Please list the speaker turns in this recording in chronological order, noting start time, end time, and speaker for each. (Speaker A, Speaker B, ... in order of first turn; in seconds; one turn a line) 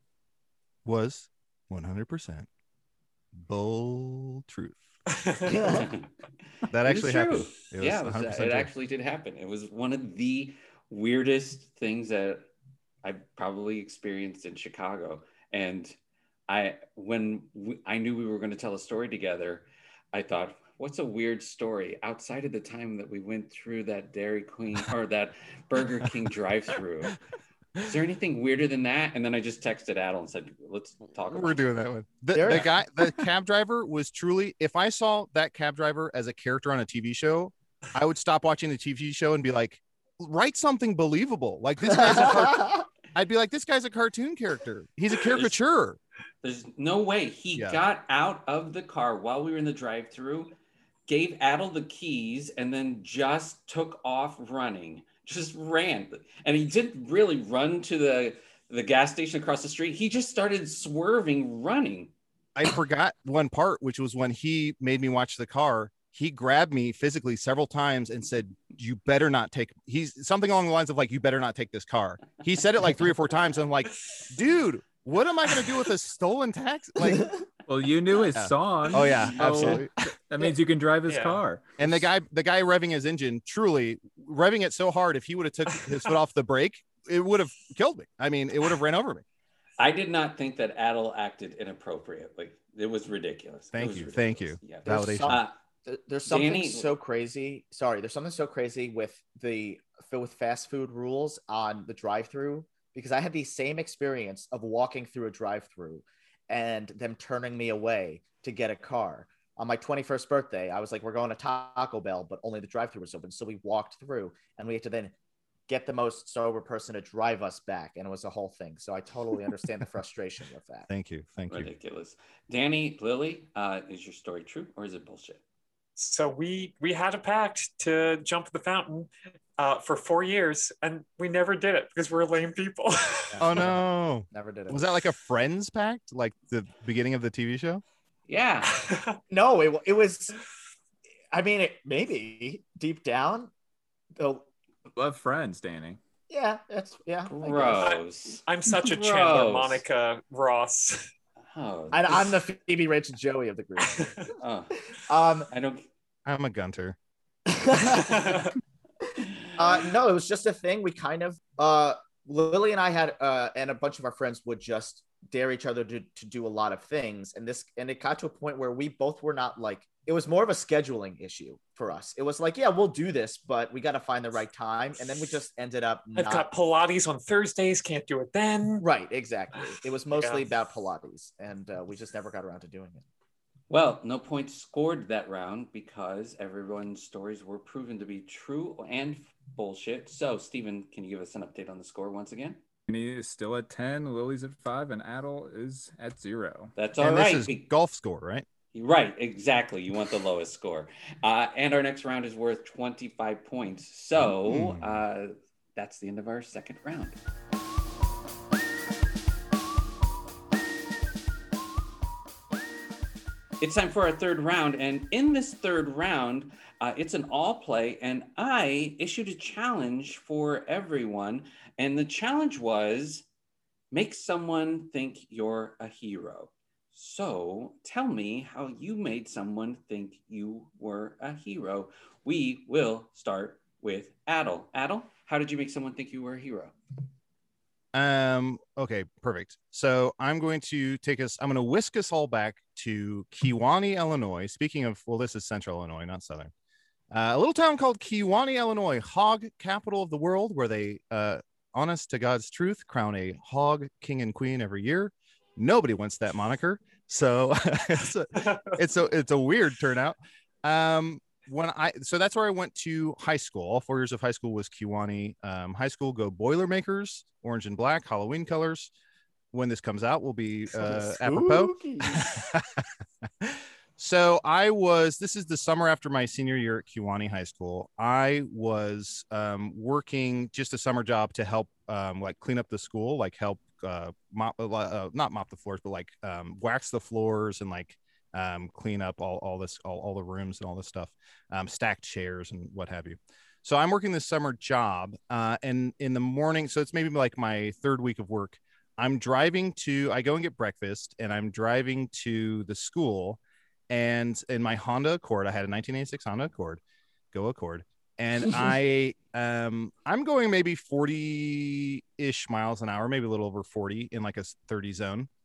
Speaker A: 0.8-2.5
Speaker A: 3.3-4.8
Speaker B: 5.1-5.5
Speaker C: 5.5-5.9
Speaker D: 5.6-6.1
Speaker A: 6.7-8.7
Speaker D: 6.8-12.4
Speaker D: 13.0-15.9
Speaker D: 16.5-27.2
Speaker D: 27.8-31.6
Speaker A: 31.3-46.0
Speaker C: 32.3-32.7
Speaker C: 42.2-42.8
Speaker D: 45.2-45.5
Speaker D: 46.4-50.5
Speaker A: 47.5-47.8
Speaker D: 51.1-62.1
Speaker A: 62.5-77.3
Speaker E: 77.7-81.8
Speaker A: 78.3-79.9
Speaker B: 81.1-81.4
Speaker A: 81.8-89.2
Speaker D: 89.8-95.5
Speaker A: 93.7-95.4
Speaker C: 94.8-115.1
Speaker D: 96.2-96.9
Speaker C: 115.7-120.9
Speaker A: 120.9-121.7
Speaker D: 121.5-125.4
Speaker B: 126.0-133.4
Speaker C: 133.3-134.9
Speaker A: 133.4-137.8
Speaker D: 138.3-138.8
Speaker B: 138.7-139.2
Speaker C: 139.3-140.4
Speaker C: 141.3-143.5
Speaker C: 144.1-144.4
Speaker E: 144.9-146.0
Speaker C: 146.3-147.9
Speaker D: 147.2-149.8
Speaker B: 147.8-151.1
Speaker D: 151.5-152.4
Speaker C: 151.9-154.3
Speaker D: 154.3-154.8
Speaker C: 155.1-155.5
Speaker D: 155.5-155.8
Speaker A: 156.2-157.0
Speaker C: 157.5-158.2
Speaker B: 157.8-158.6
Speaker C: 159.6-176.5
Speaker B: 176.2-178.8
Speaker C: 178.8-183.0
Speaker B: 180.1-180.4
Speaker D: 183.7-192.6
Speaker E: 192.9-196.7
Speaker D: 196.8-197.6
Speaker A: 197.0-198.4
Speaker D: 198.7-207.2
Speaker A: 204.4-204.9
Speaker D: 213.6-223.2
Speaker D: 223.9-236.8
Speaker A: 237.9-246.5
Speaker A: 247.1-268.9
Speaker B: 258.4-258.8
Speaker A: 269.5-272.8
Speaker C: 270.7-272.5
Speaker A: 273.4-303.4
Speaker A: 303.9-306.8
Speaker A: 307.3-315.3